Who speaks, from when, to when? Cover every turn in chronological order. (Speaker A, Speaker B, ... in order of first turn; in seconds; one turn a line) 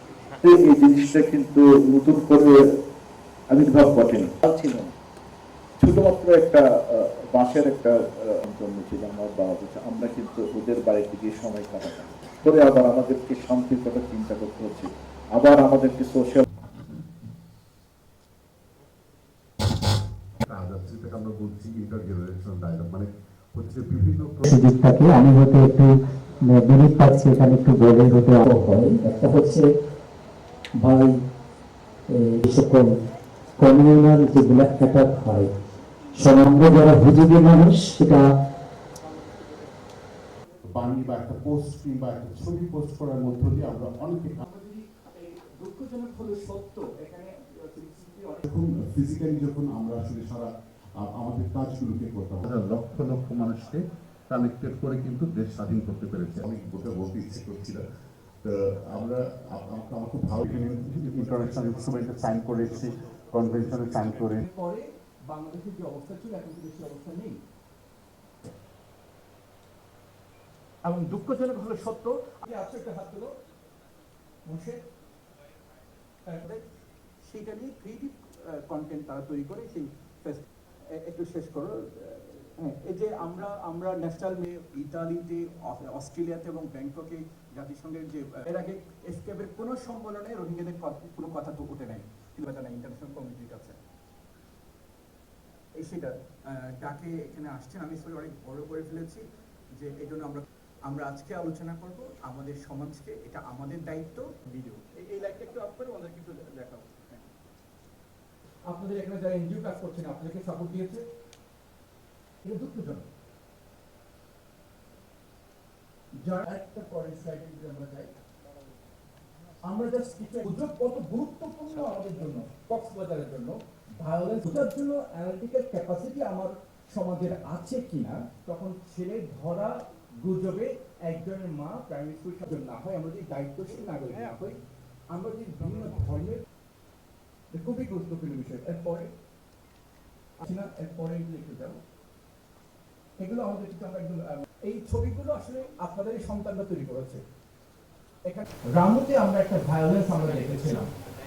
Speaker A: 0.4-2.6
Speaker A: 3.5-4.9
Speaker A: 5.8-16.4
Speaker B: 20.4-24.5
Speaker C: 24.4-25.9
Speaker C: 26.5-29.7
Speaker C: 30.8-31.2
Speaker C: 32.1-33.0
Speaker C: 33.6-35.5
Speaker C: 36.2-38.3
Speaker B: 40.7-44.4
Speaker D: 44.4-48.4
Speaker B: 48.4-50.5
Speaker B: 51.0-57.8
Speaker B: 58.4-64.4
Speaker D: 64.4-67.4
Speaker D: 70.8-73.3
Speaker D: 74.5-74.8
Speaker D: 76.3-76.6
Speaker D: 77.2-80.4
Speaker D: 81.0-93.8
Speaker D: 95.8-99.2
Speaker D: 99.8-107.3
Speaker D: 108.7-111.0
Speaker D: 112.4-113.1
Speaker D: 116.2-118.1
Speaker D: 119.7-134.6
Speaker D: 135.1-136.4
Speaker D: 137.5-139.1
Speaker D: 140.4-141.8
Speaker D: 143.2-147.2
Speaker D: 148.2-150.9